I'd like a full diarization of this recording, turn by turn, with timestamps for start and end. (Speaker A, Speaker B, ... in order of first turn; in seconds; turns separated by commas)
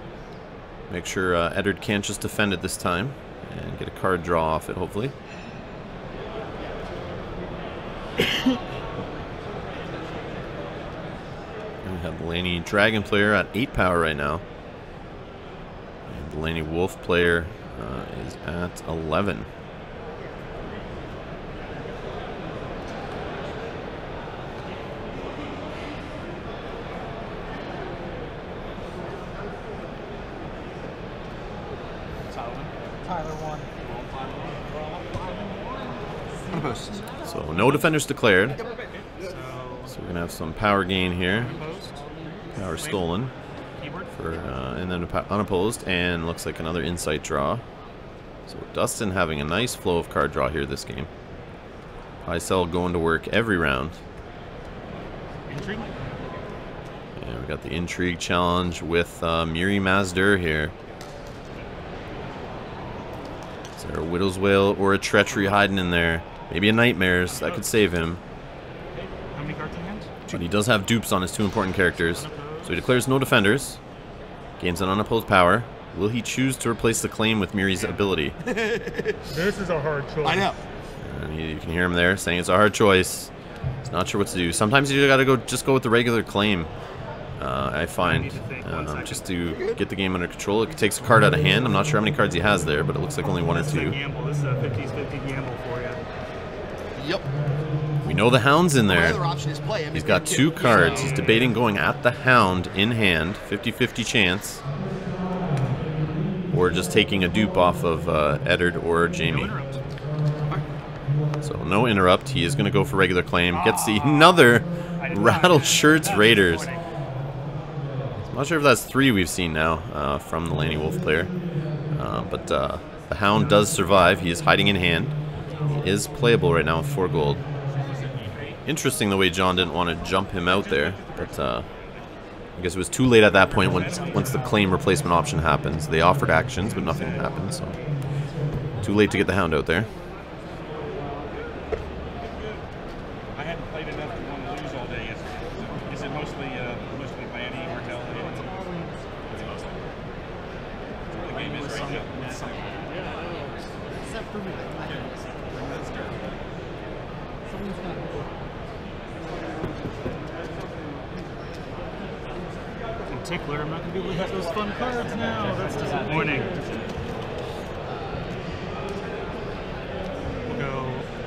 Speaker A: 0.9-5.1, Speaker A: 11.8-14.4, Speaker A: 16.1-19.5, Speaker B: 32.3-32.6, Speaker C: 32.4-32.7, Speaker D: 33.0-33.7, Speaker B: 33.8-34.6, Speaker D: 36.5-37.4, Speaker E: 36.5-37.3, Speaker A: 37.3-38.6, Speaker C: 37.5-38.0, Speaker C: 39.1-40.0, Speaker A: 39.9-41.6, Speaker C: 41.3-42.1, Speaker D: 41.4-42.8, Speaker A: 42.5-43.3, Speaker C: 42.7-44.1, Speaker A: 44.1-47.6, Speaker A: 48.5-51.1, Speaker A: 52.2-54.0, Speaker C: 55.5-55.9, Speaker A: 57.2-60.7, Speaker A: 63.8-68.2, Speaker C: 67.3-67.7, Speaker C: 69.3-70.1, Speaker A: 70.3-73.8, Speaker C: 71.9-72.8, Speaker A: 74.6-78.4, Speaker C: 77.8-78.1, Speaker E: 78.4-79.3, Speaker C: 79.3-80.5, Speaker E: 80.2-80.6, Speaker A: 81.0-83.3, Speaker A: 83.8-86.7, Speaker A: 87.4-94.0, Speaker C: 88.0-89.6, Speaker E: 89.5-89.8, Speaker E: 90.7-91.6, Speaker C: 93.5-96.0, Speaker E: 97.0-97.3, Speaker A: 98.0-99.2, Speaker E: 98.8-101.5, Speaker A: 99.9-104.6, Speaker C: 100.6-101.5, Speaker A: 106.5-109.5, Speaker C: 109.2-109.8, Speaker A: 111.4-116.7, Speaker C: 113.5-116.8, Speaker A: 118.2-121.3, Speaker A: 121.9-125.2, Speaker C: 123.3-124.1, Speaker C: 125.4-125.9, Speaker B: 125.4-125.8, Speaker A: 125.7-127.4, Speaker B: 127.7-128.6, Speaker A: 128.7-131.7, Speaker B: 130.3-131.4, Speaker A: 132.6-137.8, Speaker C: 133.4-135.0, Speaker B: 133.5-134.7, Speaker B: 136.6-137.4, Speaker A: 138.8-139.9, Speaker D: 140.7-141.1, Speaker B: 142.2-142.6, Speaker B: 143.3-148.7, Speaker D: 147.9-149.1, Speaker B: 149.2-149.8, Speaker B: 151.2-153.1, Speaker D: 151.3-152.4, Speaker D: 153.9-156.0, Speaker B: 155.6-156.1, Speaker D: 157.5-158.4, Speaker C: 163.1-166.6, Speaker B: 164.7-166.9, Speaker D: 166.1-166.6, Speaker C: 170.5-171.1